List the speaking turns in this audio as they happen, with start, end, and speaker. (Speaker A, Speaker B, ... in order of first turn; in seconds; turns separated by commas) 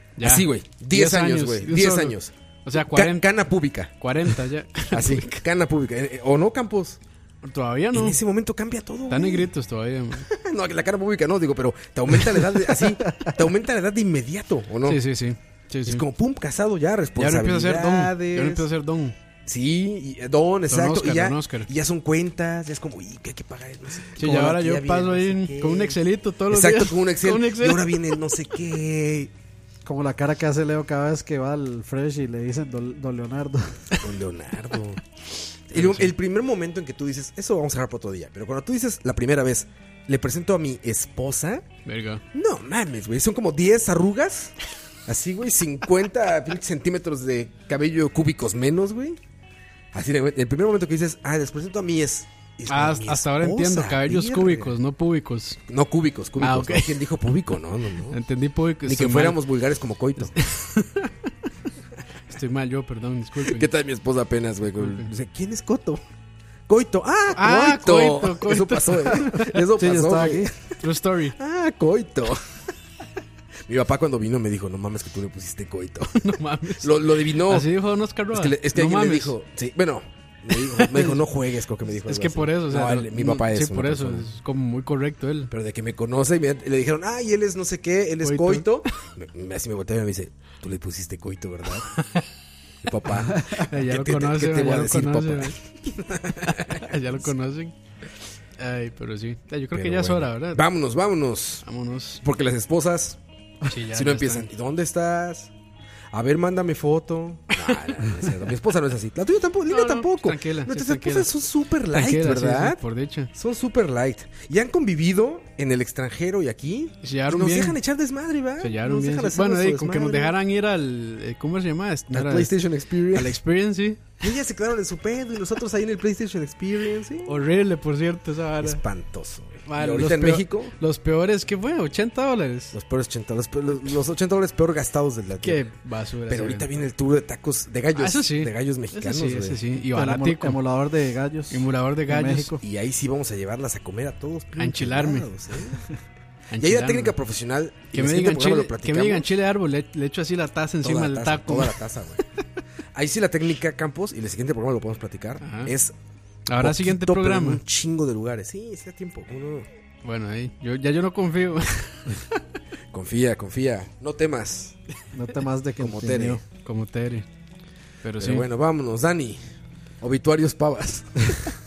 Speaker A: 0.2-3.3, Speaker B: 0.2-4.3, Speaker A: 4.0-5.4, Speaker B: 4.9-7.0, Speaker A: 7.4-8.2, Speaker B: 7.9-9.5, Speaker A: 9.1-10.3, Speaker B: 10.2-15.0, Speaker A: 14.9-16.0, Speaker B: 15.8-18.6, Speaker A: 17.2-19.1, Speaker B: 19.5-29.3, Speaker A: 20.7-21.7, Speaker A: 24.2-28.2, Speaker C: 24.2-24.6, Speaker C: 29.9-33.9, Speaker B: 34.0-35.0, Speaker B: 35.7-41.6, Speaker A: 35.7-36.1, Speaker A: 41.9-42.2, Speaker B: 42.3-44.6, Speaker B: 45.1-49.2, Speaker B: 49.9-54.8, Speaker A: 52.7-55.6, Speaker B: 55.7-58.2, Speaker A: 56.4-56.9, Speaker A: 58.1-59.4, Speaker B: 58.9-60.4, Speaker A: 60.2-61.1, Speaker A: 62.3-63.7, Speaker B: 63.5-66.0, Speaker A: 64.8-65.1, Speaker B: 66.7-70.8, Speaker A: 67.3-69.6, Speaker C: 69.8-70.5, Speaker A: 70.8-71.4, Speaker B: 71.4-72.4, Speaker B: 73.7-77.8, Speaker A: 76.2-76.9, Speaker A: 77.4-79.3, Speaker B: 78.3-84.3, Speaker A: 80.5-81.2, Speaker A: 82.0-85.5, Speaker B: 85.5-91.9, Speaker A: 88.2-88.8, Speaker B: 92.8-97.0, Speaker A: 93.1-95.6, Speaker A: 96.4-97.7, Speaker A: 98.6-100.6, Speaker B: 99.7-101.7, Speaker A: 101.6-102.2, Speaker B: 102.2-103.2, Speaker A: 103.7-104.5, Speaker B: 103.9-105.5, Speaker B: 106.1-112.8, Speaker A: 109.7-111.3, Speaker A: 111.9-113.3, Speaker B: 113.3-120.3, Speaker A: 117.0-117.8, Speaker A: 118.6-122.5, Speaker B: 122.1-123.4, Speaker A: 123.1-124.1, Speaker B: 124.2-127.4, Speaker A: 127.3-128.8, Speaker B: 128.6-130.7, Speaker A: 129.7-132.7, Speaker B: 132.7-135.6, Speaker A: 135.4-136.7, Speaker B: 136.3-139.6, Speaker A: 137.9-140.6, Speaker C: 139.9-142.6, Speaker A: 141.5-142.5, Speaker B: 142.6-145.9, Speaker A: 144.6-145.3, Speaker A: 146.5-147.2, Speaker B: 146.6-149.3, Speaker A: 147.9-151.7, Speaker B: 150.8-152.2, Speaker B: 152.9-155.9, Speaker A: 155.4-155.7, Speaker A: 156.5-157.6, Speaker B: 156.6-159.7, Speaker A: 160.0-162.4, Speaker B: 162.9-164.8, Speaker C: 165.1-166.4, Speaker B: 165.8-166.4, Speaker A: 166.7-167.3, Speaker A: 168.0-168.4, Speaker B: 168.2-169.4, Speaker B: 170.0-171.6